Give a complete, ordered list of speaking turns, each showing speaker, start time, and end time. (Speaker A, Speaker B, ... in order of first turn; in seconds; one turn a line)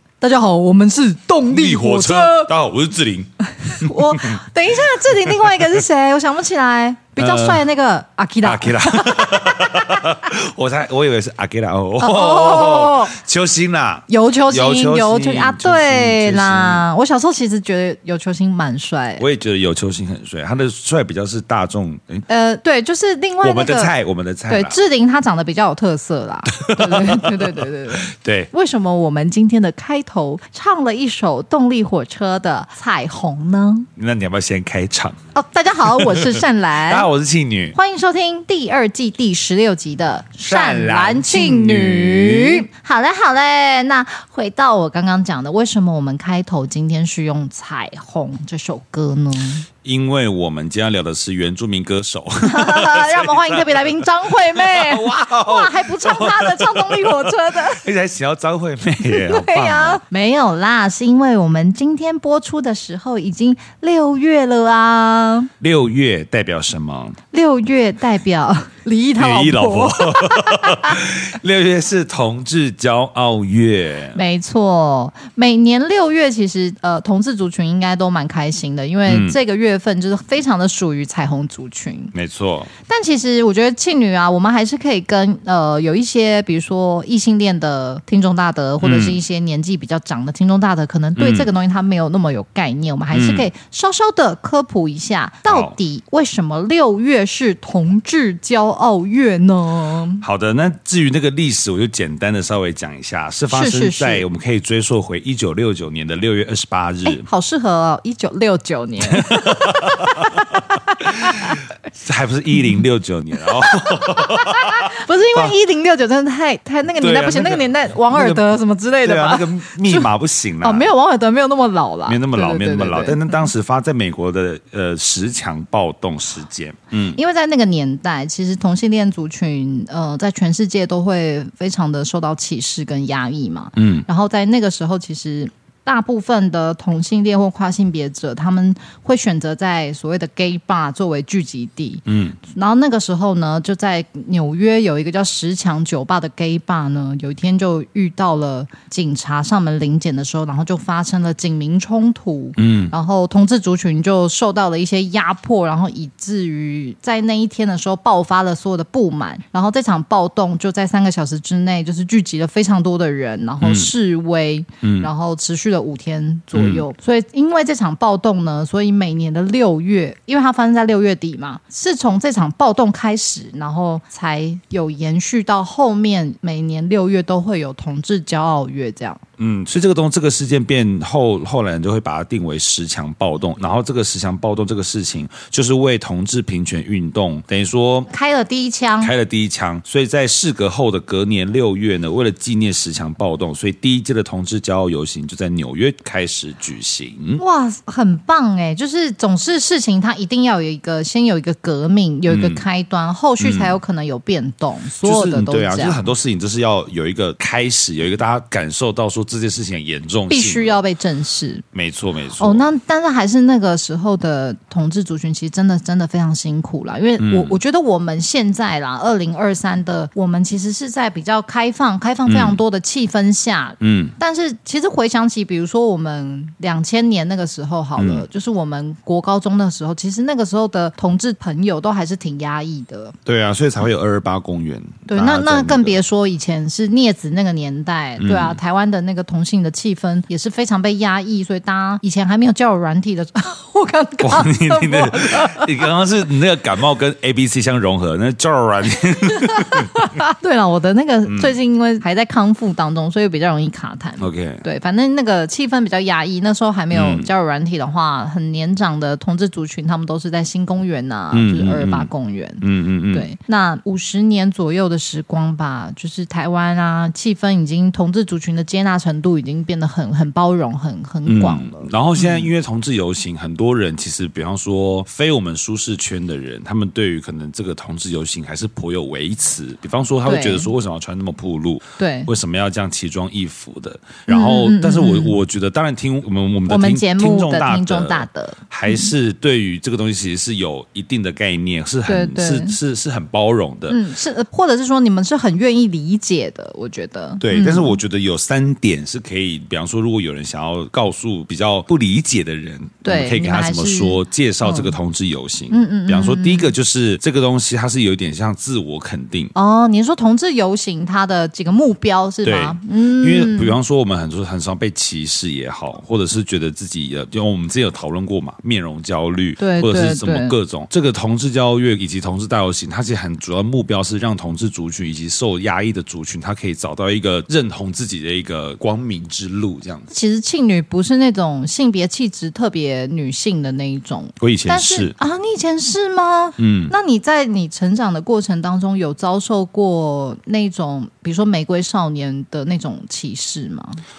Speaker A: 0.2-2.5
Speaker B: 1.4-4.4
Speaker A: 3.6-9.9
Speaker B: 5.0-5.5
Speaker B: 7.2-7.7
Speaker B: 8.4-16.8
Speaker A: 12.0-13.2
Speaker A: 14.1-19.2
Speaker B: 19.2-22.2
Speaker A: 22.3-23.9
Speaker B: 23.4-24.8
Speaker A: 24.5-33.9
Speaker B: 26.6-28.5
Speaker B: 34.0-35.2
Speaker A: 35.3-37.1
Speaker B: 35.9-37.8
Speaker A: 37.7-49.7
Speaker B: 40.4-42.7
Speaker B: 49.8-60.0
Speaker A: 52.5-57.8
Speaker A: 59.0-65.5
Speaker B: 65.6-67.2
Speaker A: 67.3-71.0
Speaker B: 69.2-74.2
Speaker A: 74.1-82.1
Speaker B: 79.1-79.4
Speaker B: 82.1-82.7
Speaker A: 82.9-100.2
Speaker B: 88.8-89.2
Speaker B: 91.2-91.5
Speaker B: 93.1-93.5
Speaker B: 95.5-95.8
Speaker B: 100.2-107.2
Speaker A: 103.5-104.2
Speaker A: 107.0-111.6
Speaker B: 109.1-115.5
Speaker A: 113.6-123.4
Speaker B: 117.0-118.4
Speaker B: 119.0-120.9
Speaker B: 122.1-127.2
Speaker A: 127.1-179.2
Speaker B: 133.8-134.0
Speaker B: 142.1-142.4
Speaker B: 152.6-152.9
Speaker B: 163.6-163.9
Speaker B: 164.8-165.1
Speaker B: 166.5-166.8
Speaker B: 179.4-188.1
Speaker A: 188.1-189.1
Speaker B: 189.0-197.4
Speaker A: 197.4-206.1
Speaker B: 202.3-202.6
Speaker B: 203.4-203.8
Speaker B: 205.0-210.8
Speaker A: 210.3-211.6
Speaker B: 211.7-212.6
Speaker A: 212.4-233.2
Speaker B: 217.2-217.6
Speaker B: 222.3-222.6
Speaker B: 223.8-224.2
Speaker B: 228.0-228.3
Speaker B: 233.2-236.0
Speaker A: 235.1-245.8
Speaker B: 238.2-238.6
Speaker B: 244.2-250.1
Speaker A: 249.3-272.5
Speaker B: 251.3-251.5
Speaker B: 254.2-254.6
Speaker B: 256.9-257.3
Speaker B: 261.3-263.3
Speaker B: 271.2-294.0
Speaker A: 280.2-280.7
Speaker A: 282.0-282.3
Speaker A: 284.3-285.3
Speaker A: 286.7-289.1
Speaker A: 292.1-292.8
Speaker A: 293.9-298.0
Speaker B: 297.4-309.5
Speaker A: 303.0-304.9
Speaker A: 305.7-306.7
Speaker A: 309.5-313.8
Speaker B: 312.4-330.1
Speaker A: 319.6-320.5
Speaker A: 330.1-344.0
Speaker B: 334.4-335.1
Speaker B: 336.6-336.9